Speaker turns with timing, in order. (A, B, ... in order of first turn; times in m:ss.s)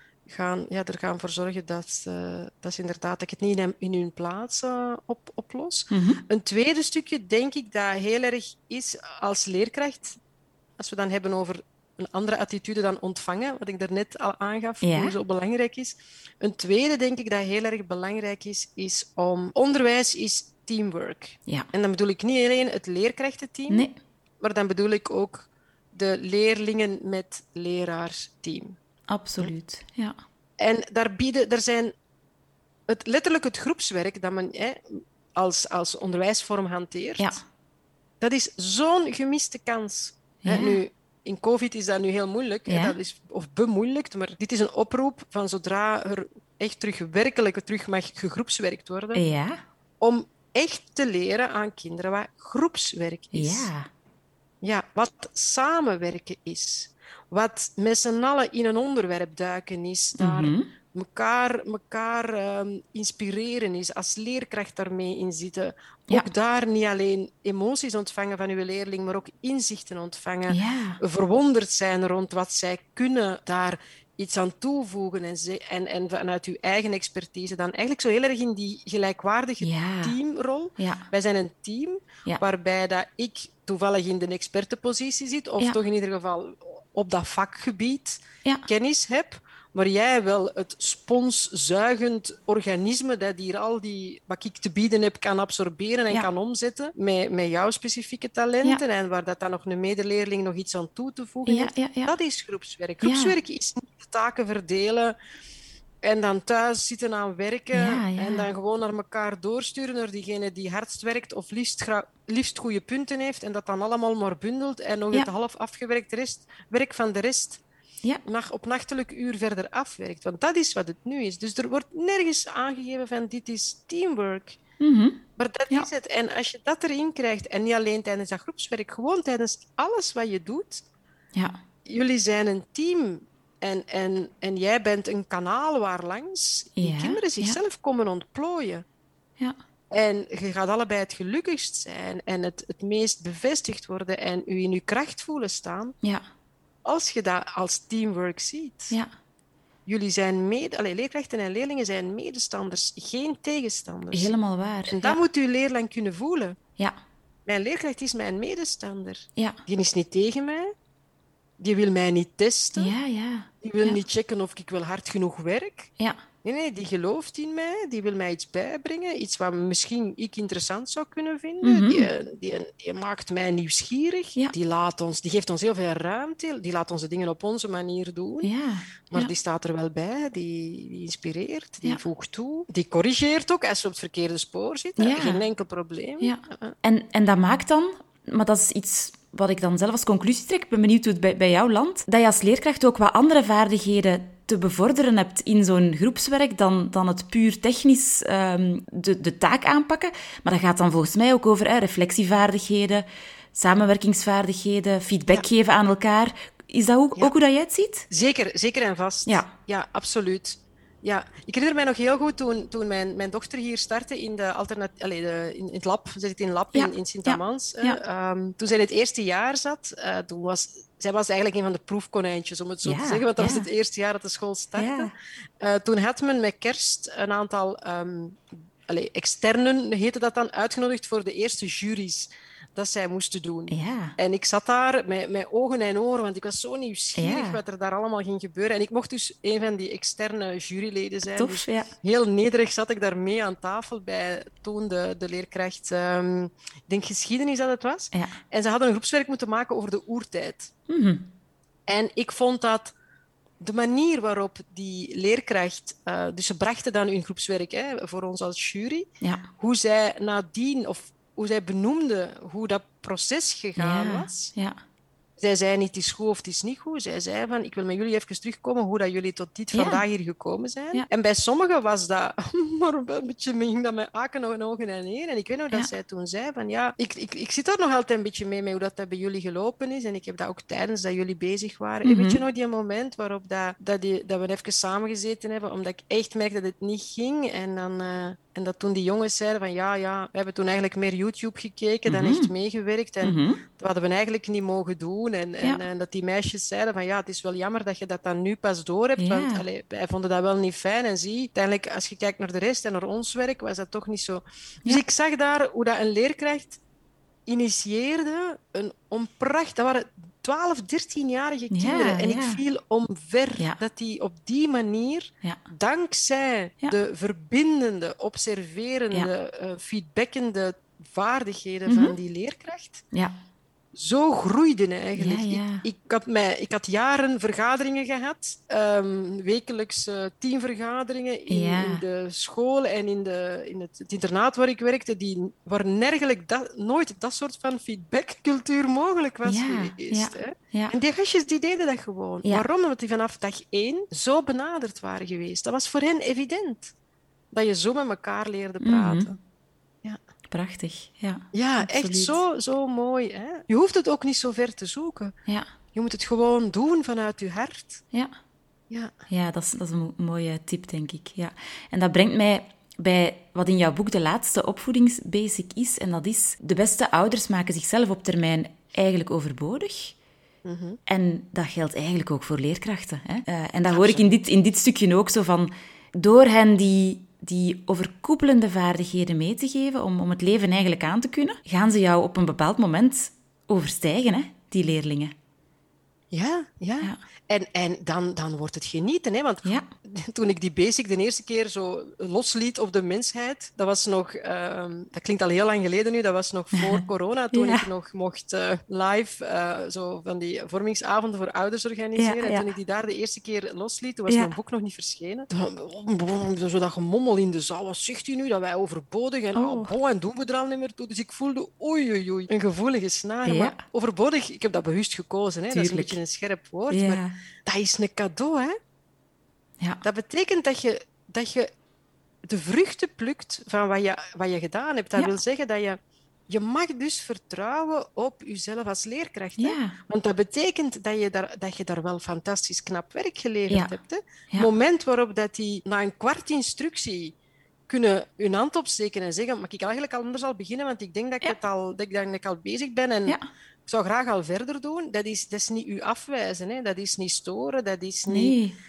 0:00.3-0:10.2 A
0:05.9-0:06.2 B
0:10.8-0:23.9 A
0:14.8-0:15.2 B
0:23.7-0:24.0 B
0:24.4-0:28.8 A
0:29.1-0:30.2 B
0:30.6-0:31.9 A
0:32.9-0:37.4 A
0:38.2-0:49.2 A
0:40.4-0:40.8 B
0:42.7-0:43.0 B
0:49.1-0:49.6 B
0:50.0-0:53.7 A
0:53.3-0:53.9 B
0:54.6-1:45.2 A
1:00.2-1:00.7 B
1:10.5-1:11.0 B
1:19.6-1:20.2 B
1:20.8-1:21.0 B
1:41.5-1:42.1 B
1:43.0-1:43.4 B
1:46.0-1:57.6 A
1:47.7-1:48.5 B
1:58.2-2:04.6 A
2:04.8-2:05.9 B
2:05.4-2:10.8 A
2:11.3-2:11.6 B
2:11.9-2:18.8 A
2:16.8-2:17.6 B
2:19.9-2:26.0 A
2:26.8-2:29.0 A
2:29.9-2:34.3 A
2:34.1-2:35.2 B
2:34.9-2:36.6 A
2:37.5-2:40.7 A
2:41.6-2:43.0 A
2:42.8-2:44.0 B
2:43.6-2:45.9 A
2:46.4-2:58.5 A
2:51.6-2:52.1 B
2:58.4-2:59.3 B
2:59.1-3:06.7 A
3:05.0-3:05.4 B
3:06.2-3:28.1 B
3:28.1-4:10.7 A
3:36.7-3:38.0 B
3:42.8-3:43.7 B
3:44.8-3:45.1 B
3:53.7-3:54.2 B
3:57.2-3:57.6 B
4:01.3-4:01.9 B
4:10.9-4:11.3 B
4:11.9-4:12.9 A
4:13.6-4:24.5 A
4:19.2-4:19.5 B
4:23.8-4:24.8 B
4:25.4-5:06.8 A
4:29.7-4:30.0 B
4:42.0-4:42.4 B
4:52.1-4:52.5 B
4:53.2-4:53.6 B
4:59.2-4:59.6 B
5:07.5-5:23.0 A
5:11.7-5:12.6 B
5:21.9-5:22.2 B
5:23.1-5:23.4 B
5:24.0-5:46.9 A
5:25.2-5:25.8 B
5:31.5-5:32.0 B
5:39.4-5:40.9 B
5:47.5-5:49.4 A
5:48.8-5:49.3 B
5:50.5-5:52.4 B
5:51.5-5:55.3 A
5:56.0-5:58.0 A
5:59.3-6:10.2 B
6:10.6-6:11.0 A
6:11.1-6:25.4 B
6:13.8-6:14.4 A
6:26.3-6:58.8 A
6:37.5-6:37.9 B
6:42.2-6:42.7 B
6:44.3-6:44.5 B
6:49.6-6:49.9 B
6:53.5-6:53.8 B
6:55.7-6:56.2 B
6:56.9-6:57.4 B
7:00.0-7:01.7 A
7:02.5-7:06.0 A
7:06.5-7:17.4 A
7:09.6-7:10.0 B
7:17.9-7:28.6 A
7:28.3-7:28.8 B